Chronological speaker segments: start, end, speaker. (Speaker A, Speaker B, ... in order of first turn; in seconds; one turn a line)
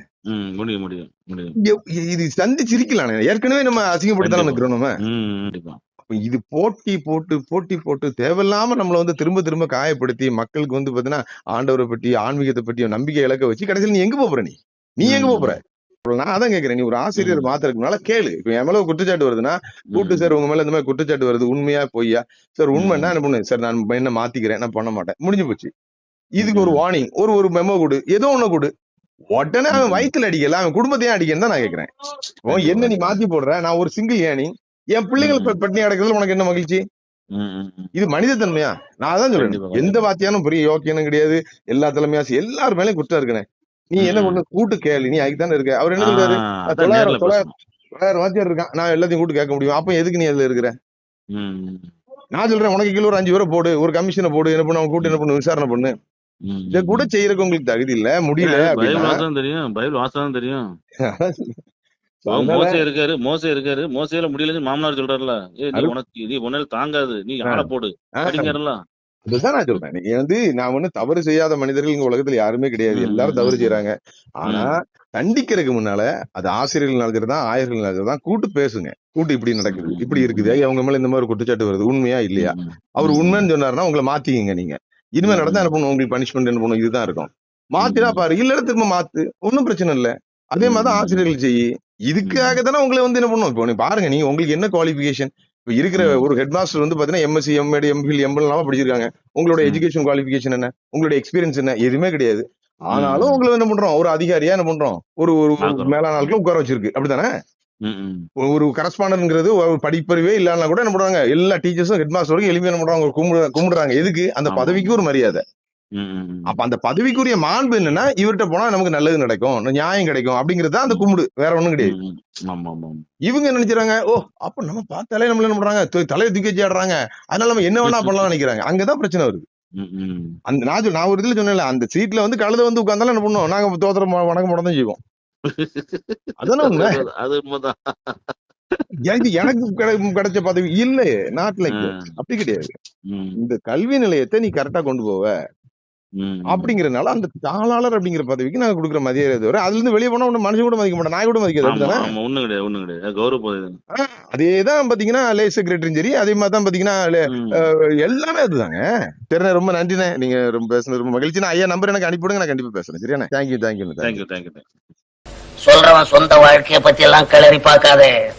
Speaker A: 0.3-1.6
Speaker B: 1.6-4.9
Speaker A: 4.2-5.8
Speaker B: 6.1-25.7
Speaker A: 15.1-15.6
Speaker A: 17.2-17.5
Speaker A: 19.9-20.3
Speaker A: 22.7-23.2
Speaker B: 26.4-28.7
Speaker A: 26.4-26.8
Speaker B: 29.3-31.9
Speaker A: 29.7-30.1
Speaker A: 32.5-33.2
Speaker B: 32.5-36.8
Speaker A: 35.2-35.6
Speaker A: 37.4-37.9
Speaker B: 38.0-47.5
Speaker A: 39.4-40.0
Speaker A: 44.0-44.4
Speaker A: 46.0-47.5
Speaker B: 48.0-50.7
Speaker A: 51.4-51.9
Speaker B: 52.4-55.9
Speaker A: 56.5-57.1
Speaker B: 56.7-59.2
Speaker A: 58.4-60.6
Speaker B: 61.1-61.6
Speaker B: 62.2-62.8
Speaker A: 62.3-68.8
Speaker B: 67.5-68.5
Speaker B: 69.3-107.3
Speaker A: 72.9-73.8
Speaker A: 74.5-74.7
Speaker A: 79.7-80.5
Speaker A: 82.4-83.5
Speaker A: 85.2-85.7
Speaker A: 87.8-88.2
Speaker A: 90.6-91.3
Speaker A: 92.2-92.6
Speaker A: 96.0-96.3
Speaker A: 102.9-103.5
Speaker A: 105.6-106.0
Speaker A: 107.9-108.3
Speaker B: 108.4-115.4
Speaker A: 114.5-115.0
Speaker A: 116.0-116.5
Speaker B: 116.5-122.0
Speaker A: 121.9-123.0
Speaker B: 123.3-129.5
Speaker A: 127.8-128.2
Speaker A: 129.8-130.4
Speaker B: 130.5-135.0
Speaker A: 135.5-138.8
Speaker B: 136.4-137.0
Speaker B: 139.1-142.7
Speaker A: 141.7-142.1
Speaker A: 143.1-143.4
Speaker B: 143.4-145.3
Speaker A: 146.2-146.8
Speaker B: 146.5-152.1
Speaker A: 151.6-153.8
Speaker B: 153.9-164.2
Speaker A: 157.3-157.7
Speaker A: 164.0-164.7
Speaker C: 165.6-168.1